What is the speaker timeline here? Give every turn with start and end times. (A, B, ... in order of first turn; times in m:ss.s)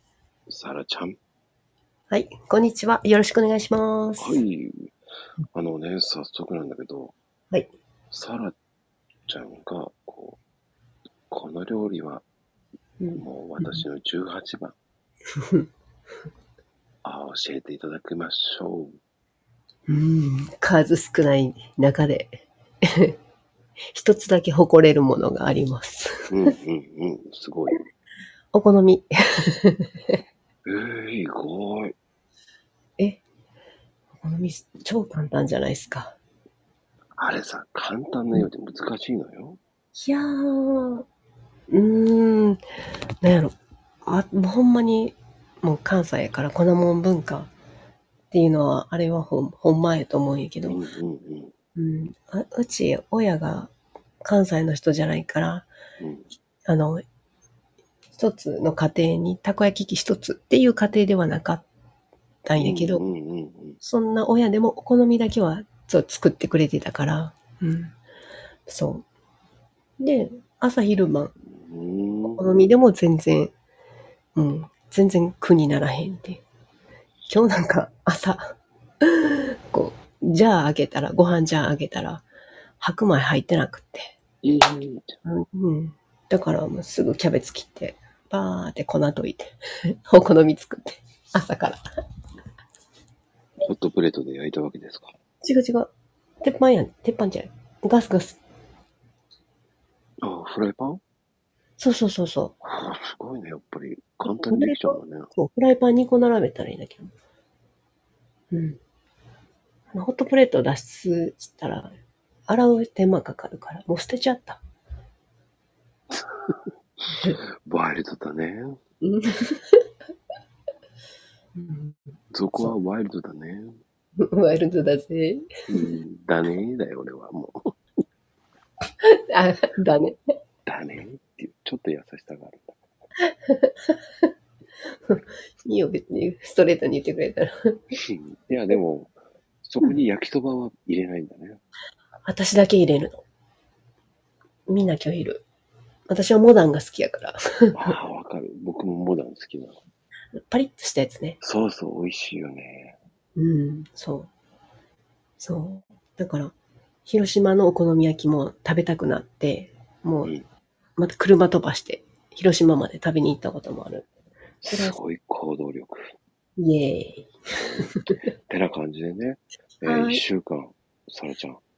0:00.5-0:01.2 A
0:02.1-0:04.4 B
0:04.2-0:04.9 A
0:05.5-0:07.1 A
0:08.1-0:08.5 A
0:09.3-0:10.4 A
0:11.3-0:12.2 A
0:13.0-0:13.8 B
0:13.2-0:14.7 A
0:15.4-0:15.7 B
0:17.0-0:19.0 A
0:19.9-0:23.1 B
0:23.9-0:26.3 B
0:26.3-0:27.8 A
0:28.5-0:29.1 B
0:29.6-0:30.1 B
0:30.6-0:31.9 A
0:34.2-0:36.2 B
0:37.2-0:39.6 A
0:39.9-0:41.0 B
0:41.7-0:42.6 B
0:43.2-0:47.5 B
0:48.3-0:50.8 B
0:50.6-0:51.5 A
0:51.7-0:55.7 B
0:56.0-0:56.3 A
0:56.6-0:57.0 B
0:58.2-1:01.6 B
1:02.4-1:03.0 B
1:02.6-1:03.8 A
1:03.8-1:07.9 B
1:08.7-1:09.0 B
1:10.0-1:11.3 B
1:11.5-1:12.4 A
1:12.3-1:13.5 B
1:14.4-1:16.4 B
1:17.3-1:22.2 B
1:22.8-1:24.1 B
1:24.4-1:25.2 A
1:25.2-1:31.8 B
1:33.6-1:35.1 A
1:35.4-1:35.9 B
1:36.4-1:38.4 B
1:40.2-1:41.0 A
1:41.8-1:42.5 B
1:42.6-1:45.3 A
1:44.3-1:47.1 B
1:48.5-1:48.8 B
1:49.9-1:51.9 B
1:52.5-1:54.6 B
1:57.6-1:58.8 A
1:59.0-1:59.8 B
2:01.6-2:02.0 B
2:02.3-2:03.8 A
2:04.2-2:05.9 B
2:05.7-2:07.7 A
2:09.0-2:10.2 B
2:10.6-2:12.8 A
2:13.3-2:14.0 B
2:15.1-2:17.8 B
2:18.0-2:21.6 A
2:22.2-2:23.2 B
2:24.7-2:25.4 B
2:26.1-2:27.9 B
2:27.8-2:29.8 A
2:30.5-2:31.4 B
2:31.4-2:33.0 A
2:33.4-2:34.3 B
2:35.4-2:36.5 B
2:37.0-2:40.3 B
2:41.0-2:44.1 B
2:44.6-2:46.0 A
2:44.7-2:45.0 B
2:46.6-2:48.2 B
2:47.6-2:51.6 A
2:49.8-2:50.2 B